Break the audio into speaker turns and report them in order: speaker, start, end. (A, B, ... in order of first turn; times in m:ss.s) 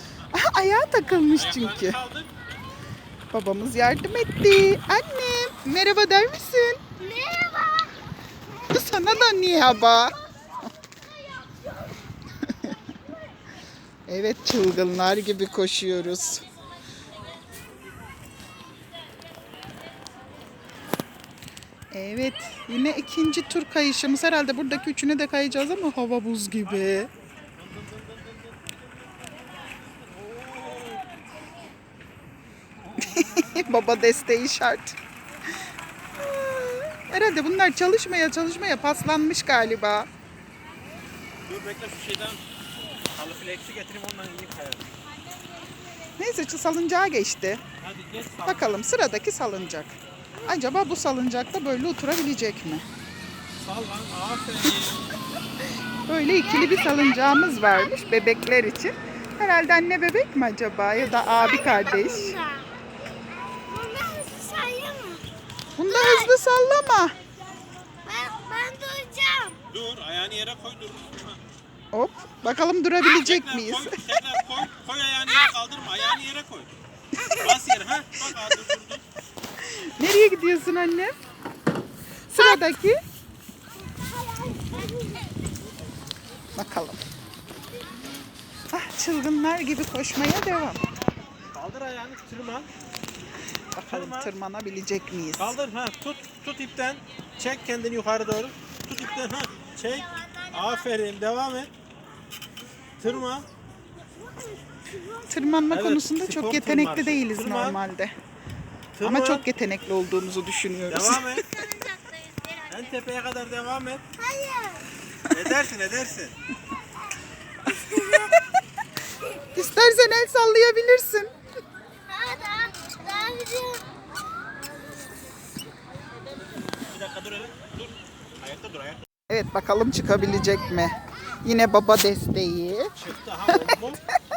0:00.3-0:02.0 A
0:01.3-0:02.3 B
0:03.3-0:06.8 A
0:07.0-0:08.0 C
0:08.7-0:10.2 A
0:11.3-0:11.8 C
0:12.5-0:12.8 A
0:14.1-0:16.4 A
0:21.9-0:27.1 A
0:27.6-0:31.1 B
0:33.3-0:35.0 A
0:36.2-0:40.1 A
0:41.4-0:42.4 B
0:43.1-0:44.9 B
0:46.2-0:47.6 A
0:47.8-0:48.8 B
0:48.4-0:52.8 A
0:53.6-0:55.2 B
0:56.1-1:02.4 A
0:56.6-0:58.0 C
1:01.4-1:02.7 C
1:03.3-1:05.3 C
1:05.8-1:07.1 A
1:05.9-1:06.3 C
1:08.0-1:09.6 C
1:09.7-1:11.4 B
1:11.9-1:14.0 A
1:13.0-1:16.7 B
1:17.3-1:19.0 B
1:19.6-1:21.2 A
1:22.3-1:23.0 A
1:24.5-1:24.8 C
1:26.6-1:27.0 A
1:28.7-1:30.8 A
1:31.5-1:32.7 B
1:33.7-1:35.6 A
1:33.9-1:34.3 B
1:35.4-1:41.7 B
1:43.0-1:43.5 B
1:45.3-1:48.1 A
1:45.7-1:47.8 B
1:48.9-1:49.4 B
1:49.0-1:51.4 A
1:50.9-1:51.6 B
1:51.5-1:52.8 C
1:52.7-1:54.0 B
1:54.2-1:54.9 C
1:55.3-1:56.3 B
1:57.7-1:58.4 C
1:57.9-1:58.2 A
1:59.6-2:01.3 A
2:02.1-2:03.8 C
2:06.9-2:09.0 B
2:09.3-2:12.9 A
2:13.0-2:14.0 B